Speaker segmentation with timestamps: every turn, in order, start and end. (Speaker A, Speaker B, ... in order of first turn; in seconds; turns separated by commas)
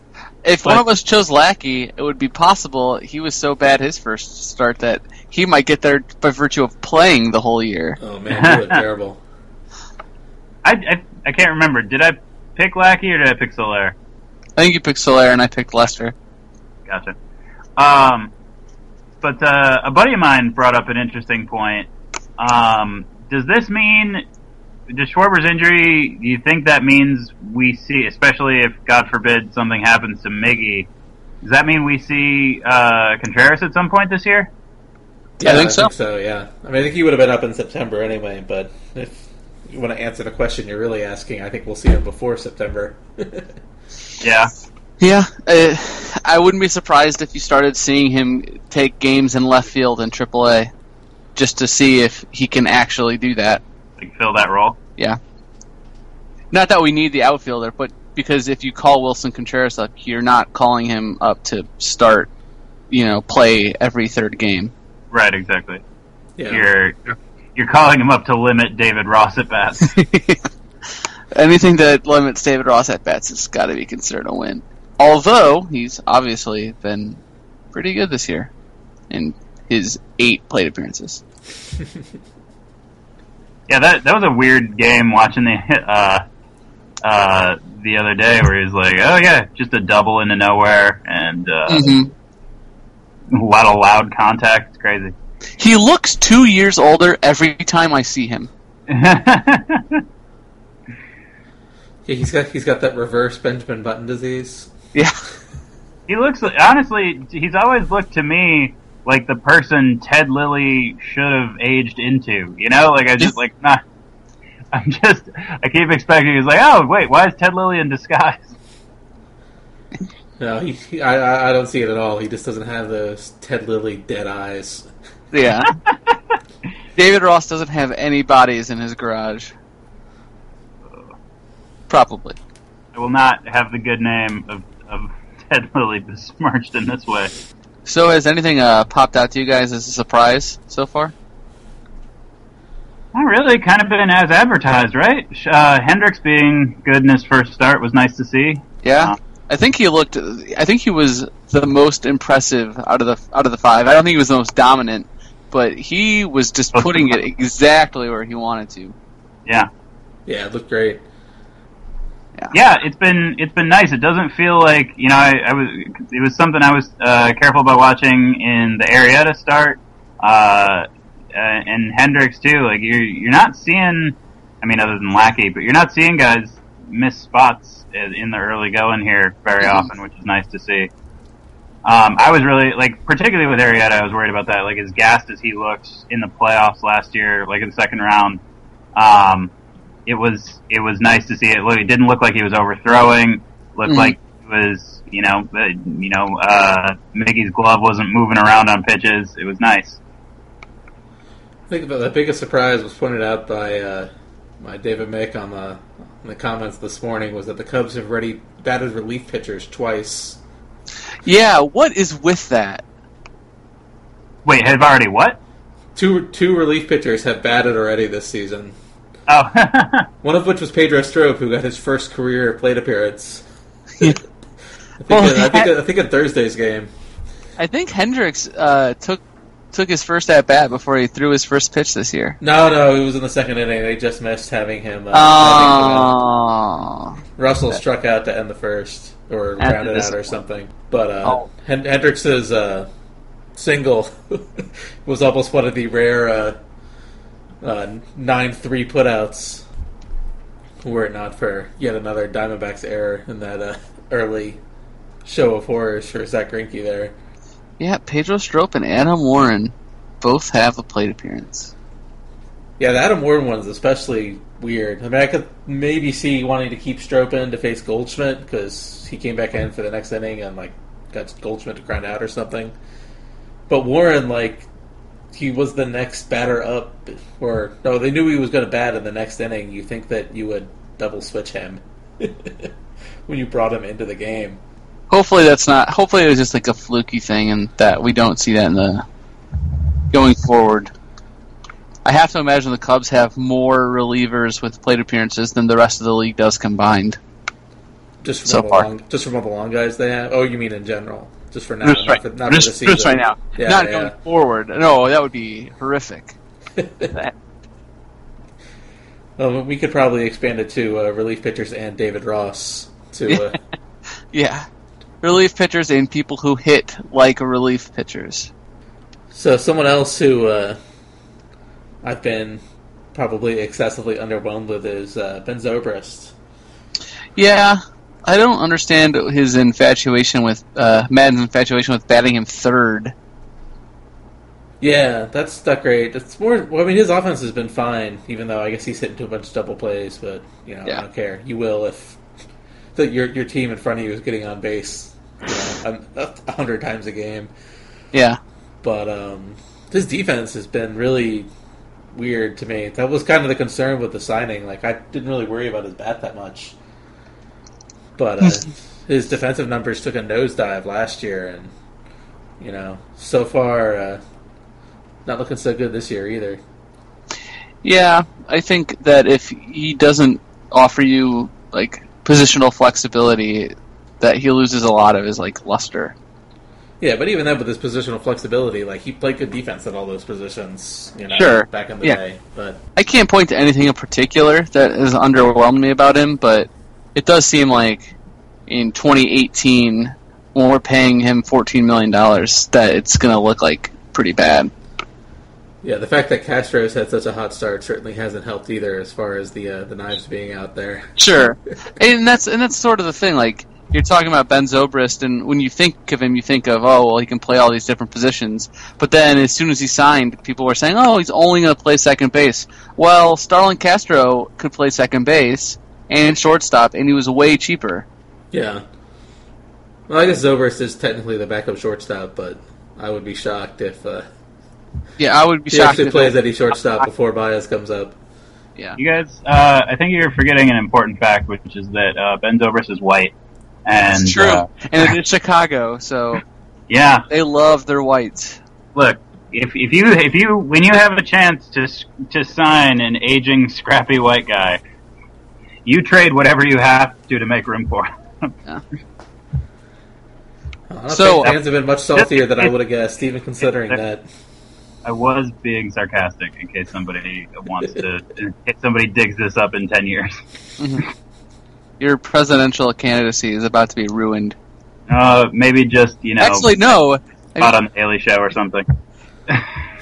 Speaker A: 0.4-8.0, Speaker B: 8.0-9.2, Speaker C: 8.3-8.8, Speaker C: 10.6-13.9, Speaker A: 14.6-16.1, Speaker C: 16.9-17.2, Speaker C: 17.8-18.3, Speaker C: 19.2-24.2, Speaker C: 24.9-30.9, Speaker C: 31.4-34.5, Speaker B: 35.4-43.5, Speaker A: 35.4-35.9, Speaker C: 44.2-44.5, Speaker A: 45.0-50.7, Speaker A: 51.4-53.6, Speaker C: 54.0-54.8, Speaker A: 56.5-62.3, Speaker A: 62.9-64.7, Speaker C: 65.1-65.8, Speaker B: 66.4-66.7, Speaker C: 66.5-70.0, Speaker A: 69.9-70.5, Speaker A: 71.3-77.2, Speaker A: 77.7-78.5, Speaker A: 79.1-81.2, Speaker C: 83.7-86.2, Speaker C: 87.0-91.9, Speaker A: 91.7-92.1, Speaker C: 93.3-95.1, Speaker A: 95.6-98.5, Speaker C: 98.9-100.0, Speaker B: 102.1-104.7, Speaker C: 106.1-113.8, Speaker C: 114.7-118.5, Speaker B: 120.4-124.9, Speaker A: 125.3-125.7, Speaker A: 127.0-129.5, Speaker A: 131.9-132.4, Speaker C: 132.9-137.3, Speaker A: 137.9-141.1, Speaker C: 143.1-149.2, Speaker A: 148.8-158.9, Speaker C: 156.8-157.1, Speaker B: 160.3-161.0, Speaker C: 162.5-180.9, Speaker A: 179.6-179.9, Speaker C: 181.8-188.4, Speaker C: 188.9-189.5, Speaker C: 190.1-200.0, Speaker A: 193.9-194.2, Speaker B: 201.7-204.1, Speaker B: 204.6-210.4, Speaker A: 211.2-212.8, Speaker C: 214.4-215.4, Speaker B: 216.0-218.8, Speaker C: 219.3-220.1, Speaker B: 220.2-223.4, Speaker B: 225.0-226.9, Speaker A: 225.1-225.7, Speaker A: 227.6-232.4, Speaker B: 232.4-236.2, Speaker A: 235.1-237.2, Speaker B: 237.4-242.9, Speaker A: 239.6-240.3, Speaker B: 243.6-246.6, Speaker B: 247.6-249.7, Speaker B: 250.8-254.6, Speaker B: 255.2-257.1, Speaker A: 257.8-261.7, Speaker B: 262.8-272.8, Speaker B: 273.7-274.7, Speaker B: 275.3-282.7, Speaker B: 283.3-284.6, Speaker A: 285.1-289.1, Speaker A: 290.1-290.9, Speaker A: 292.1-297.2, Speaker B: 298.2-304.1, Speaker A: 298.4-298.9, Speaker A: 301.8-306.4, Speaker B: 306.8-307.1, Speaker B: 309.4-313.6, Speaker A: 314.3-314.7, Speaker A: 315.2-318.5, Speaker B: 319.3-320.8, Speaker B: 322.0-322.6, Speaker B: 323.1-326.3, Speaker A: 327.4-333.1, Speaker B: 334.8-342.2, Speaker B: 342.9-347.5, Speaker A: 348.1-348.4, Speaker B: 348.8-351.5, Speaker B: 352.1-356.8, Speaker B: 358.2-361.7, Speaker B: 362.6-364.2, Speaker B: 365.3-366.6, Speaker A: 367.8-376.1, Speaker B: 377.0-382.8, Speaker A: 381.3-382.2, Speaker A: 383.0-388.1, Speaker A: 388.7-394.7, Speaker B: 395.8-401.1, Speaker A: 401.2-418.1, Speaker B: 418.5-418.8, Speaker B: 420.1-424.3, Speaker A: 425.2-427.1, Speaker B: 425.7-428.2, Speaker C: 429.0-433.3, Speaker C: 433.9-434.7, Speaker A: 434.1-436.4, Speaker C: 436.9-437.3, Speaker A: 437.3-438.6, Speaker C: 438.9-444.8, Speaker C: 445.9-448.5, Speaker B: 450.9-454.3, Speaker A: 451.1-451.6, Speaker C: 452.1-452.7, Speaker C: 455.0-460.4, Speaker A: 460.8-461.1, Speaker A: 462.0-464.6, Speaker C: 465.1-466.7, Speaker A: 466.4-467.8, Speaker C: 467.6-468.9, Speaker C: 469.5-469.8